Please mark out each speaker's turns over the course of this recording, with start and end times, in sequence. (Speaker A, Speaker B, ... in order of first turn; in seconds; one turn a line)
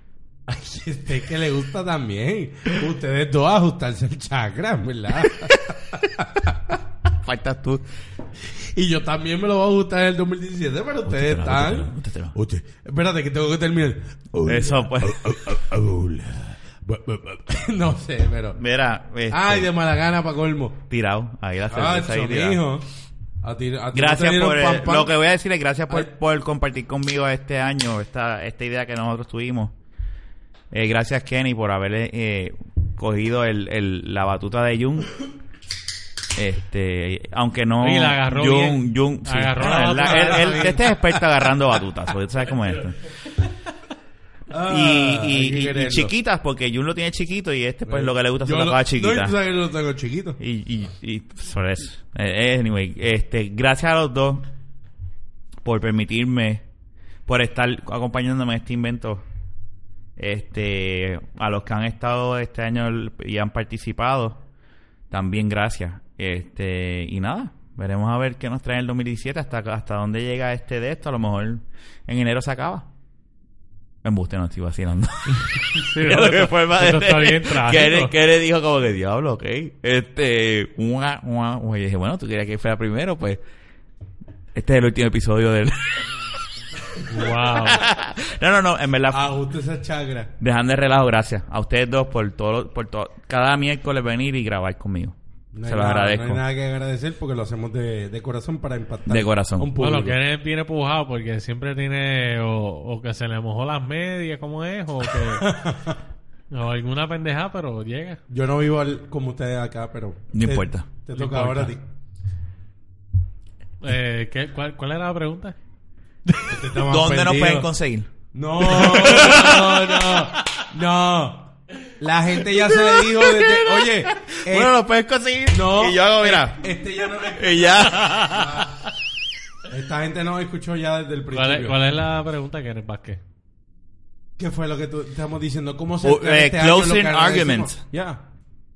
Speaker A: 0.5-6.8
Speaker B: 5.3-5.6
Speaker B: 7.2-7.8
Speaker A: 8.6-18.6
Speaker B: 11.1-12.3
Speaker B: 14.4-15.6
Speaker B: 18.6-19.7
Speaker A: 19.3-20.9
Speaker B: 20.9-22.6
Speaker A: 21.7-22.9
Speaker A: 23.4-25.1
Speaker B: 23.9-29.7
Speaker B: 30.7-35.1
Speaker B: 36.4-43.0
Speaker C: 37.8-40.8
Speaker A: 40.0-41.2
Speaker A: 44.5-46.1
Speaker B: 44.7-49.4
Speaker A: 47.9-50.4
Speaker B: 50.4-54.5
Speaker B: 55.6-56.6
Speaker B: 57.3-59.3
Speaker B: 60.2-64.4
Speaker B: 65.1-72.9
Speaker B: 74.0-83.4
Speaker C: 75.7-78.1
Speaker B: 84.5-86.1
Speaker C: 87.1-87.8
Speaker B: 87.4-89.3
Speaker A: 89.1-90.3
Speaker B: 90.4-96.4
Speaker A: 95.5-100.2
Speaker B: 99.1-99.7
Speaker C: 99.8-105.5
Speaker A: 105.4-106.0
Speaker C: 106.5-108.2
Speaker A: 108.3-111.8
Speaker B: 110.3-111.5
Speaker C: 111.2-111.7
Speaker C: 113.8-115.6
Speaker A: 116.5-117.7
Speaker B: 116.9-118.1
Speaker A: 118.3-124.7
Speaker B: 118.6-120.3
Speaker C: 118.7-119.7
Speaker B: 122.5-126.6
Speaker A: 125.5-128.8
Speaker B: 127.4-128.7
Speaker C: 128.0-128.5
Speaker A: 129.7-131.8
Speaker C: 131.3-133.2
Speaker A: 134.4-138.2
Speaker B: 136.0-137.8